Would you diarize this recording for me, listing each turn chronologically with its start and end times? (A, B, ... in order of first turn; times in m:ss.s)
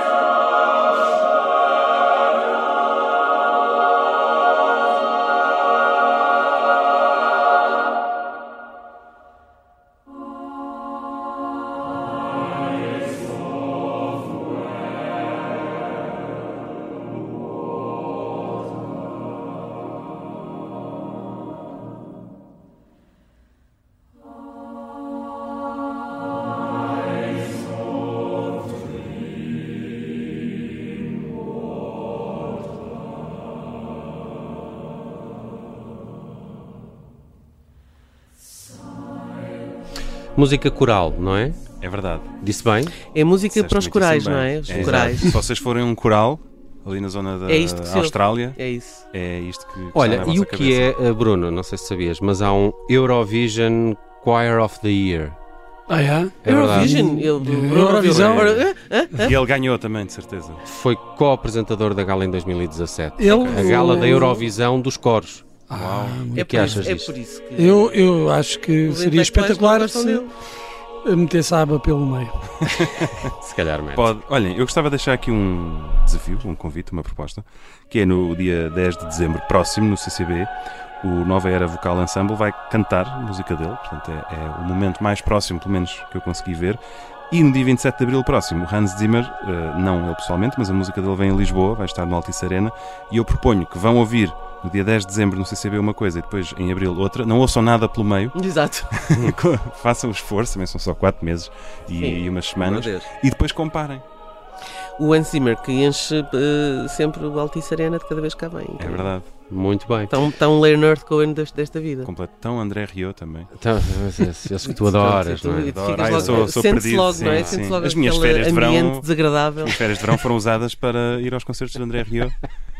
0:40.4-0:41.6 A
0:41.8-0:42.3 B
0:42.4-0:43.0 A
0:43.1-0:45.4 C
0:43.5-0:48.6 B
0:44.7-0:45.2 A
0:47.5-0:49.0 C
0:49.1-0:50.9 B
0:49.9-0:55.4 A
0:55.9-0:58.6 D
0:56.4-0:56.9 A
0:56.4-0:59.3 C
0:59.2-1:00.6 B
1:00.6-1:05.6 A
1:03.2-1:04.4 D
1:03.3-1:03.8 B
1:05.7-1:06.9 D
1:05.7-1:06.4 B
1:06.3-1:07.1 A
1:06.3-1:08.1 C
1:07.6-1:10.2 D
1:08.8-1:10.3 C
1:11.0-1:13.0 D
1:12.7-1:13.3 B
1:13.4-1:14.1 A
1:13.9-1:20.5 B
1:21.0-1:38.4 B
1:38.3-1:38.9 C
1:38.9-1:44.0 B
1:41.9-1:43.1 C
1:45.0-1:49.1 C
1:48.8-1:49.3 B
1:49.5-1:50.1 A
1:50.1-1:52.1 C
1:52.0-1:53.5 B
1:53.6-1:57.6 A
1:54.6-1:59.8 C
1:55.7-2:02.4 B